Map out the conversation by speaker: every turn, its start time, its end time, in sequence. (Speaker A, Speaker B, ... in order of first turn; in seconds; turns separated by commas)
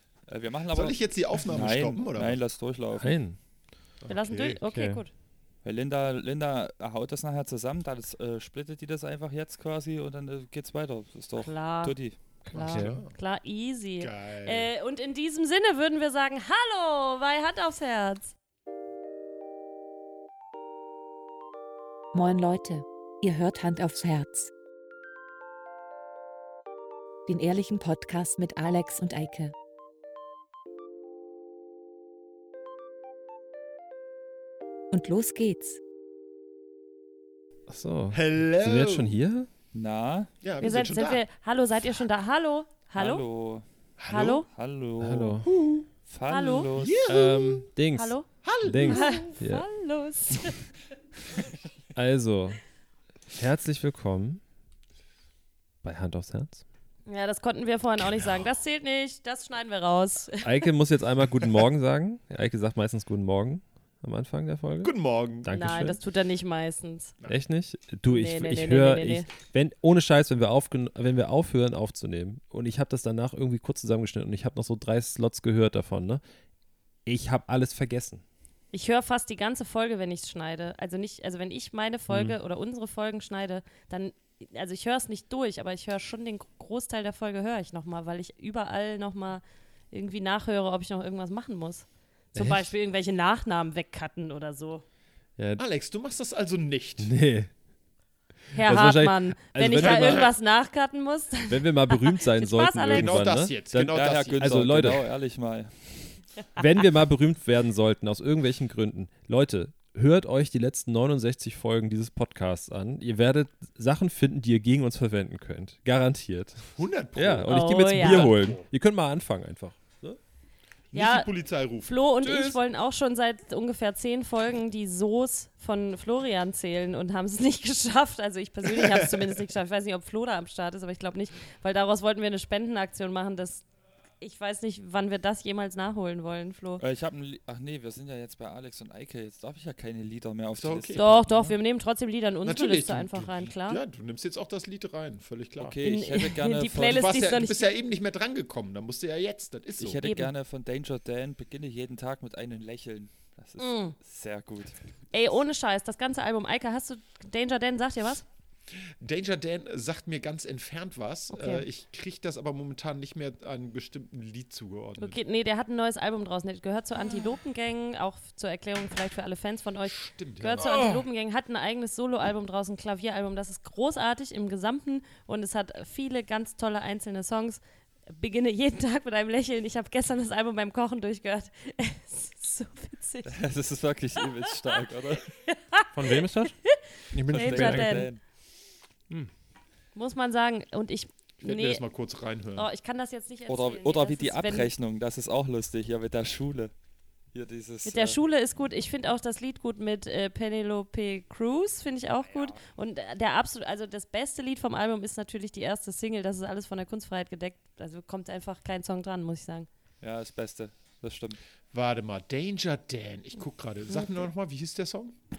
Speaker A: 0.3-3.1, Speaker B: 0.7-2.4, Speaker C: 3.0-3.4, Speaker B: 4.0-4.6, Speaker D: 4.1-5.1, Speaker C: 4.7-5.0, Speaker A: 5.6-12.2, Speaker D: 11.4-11.9, Speaker C: 12.4-13.0, Speaker B: 12.5-13.1, Speaker D: 12.5-18.3, Speaker B: 14.0-14.7, Speaker E: 22.1-24.5, Speaker E: 27.3-29.5, Speaker E: 34.9-35.8, Speaker C: 37.7-39.5, Speaker B: 38.1-39.2, Speaker A: 39.7-40.3, Speaker B: 40.4-41.2, Speaker D: 40.6-43.2, Speaker A: 42.9-43.6, Speaker B: 44.0-44.4, Speaker D: 44.1-44.5, Speaker A: 44.5-45.4, Speaker C: 45.0-45.5, Speaker B: 45.4-45.9, Speaker A: 46.1-47.1, Speaker D: 46.3-46.7, Speaker B: 46.7-47.7, Speaker C: 47.1-49.6, Speaker D: 47.9-48.3, Speaker B: 48.4-49.3, Speaker D: 48.9-50.6, Speaker C: 51.9-52.6, Speaker C: 53.3-54.4, Speaker C: 55.8-56.6, Speaker D: 57.1-60.7, Speaker C: 60.4-64.9, Speaker B: 64.8-65.5, Speaker C: 65.4-66.0, Speaker D: 65.5-67.1, Speaker C: 67.3-76.2, Speaker D: 68.1-69.3, Speaker C: 77.0-78.2, Speaker D: 78.7-94.8, Speaker C: 82.1-82.4, Speaker C: 92.3-92.7, Speaker B: 95.6-97.1, Speaker C: 97.0-97.5, Speaker D: 98.5-103.3, Speaker C: 98.6-100.3, Speaker B: 99.8-100.3, Speaker C: 101.5-105.0, Speaker B: 102.9-104.9, Speaker A: 103.9-106.2, Speaker C: 106.6-120.2, Speaker B: 116.8-118.7, Speaker D: 117.5-118.3, Speaker B: 120.9-122.0, Speaker D: 120.9-121.3, Speaker D: 121.8-133.6, Speaker C: 122.2-122.6, Speaker B: 128.7-129.2, Speaker D: 134.2-136.8, Speaker A: 136.8-141.5, Speaker B: 140.6-141.0, Speaker D: 140.9-143.8, Speaker B: 142.4-145.8, Speaker A: 145.6-147.3, Speaker D: 145.8-147.7, Speaker B: 146.8-150.0, Speaker A: 149.8-154.8, Speaker D: 150.0-150.3, Speaker D: 153.6-153.9, Speaker D: 155.1-158.2, Speaker B: 159.0-165.2, Speaker D: 161.3-161.7, Speaker D: 165.0-183.4, Speaker B: 169.8-171.1, Speaker A: 183.3-185.3, Speaker D: 185.3-188.1, Speaker C: 185.9-186.5, Speaker C: 187.1-188.0, Speaker A: 187.2-188.2, Speaker D: 189.9-191.8, Speaker B: 191.4-192.7, Speaker D: 192.5-194.7, Speaker A: 193.5-196.7, Speaker A: 197.3-198.2, Speaker D: 197.8-209.7, Speaker A: 202.2-202.6, Speaker A: 210.0-211.4, Speaker B: 211.7-215.1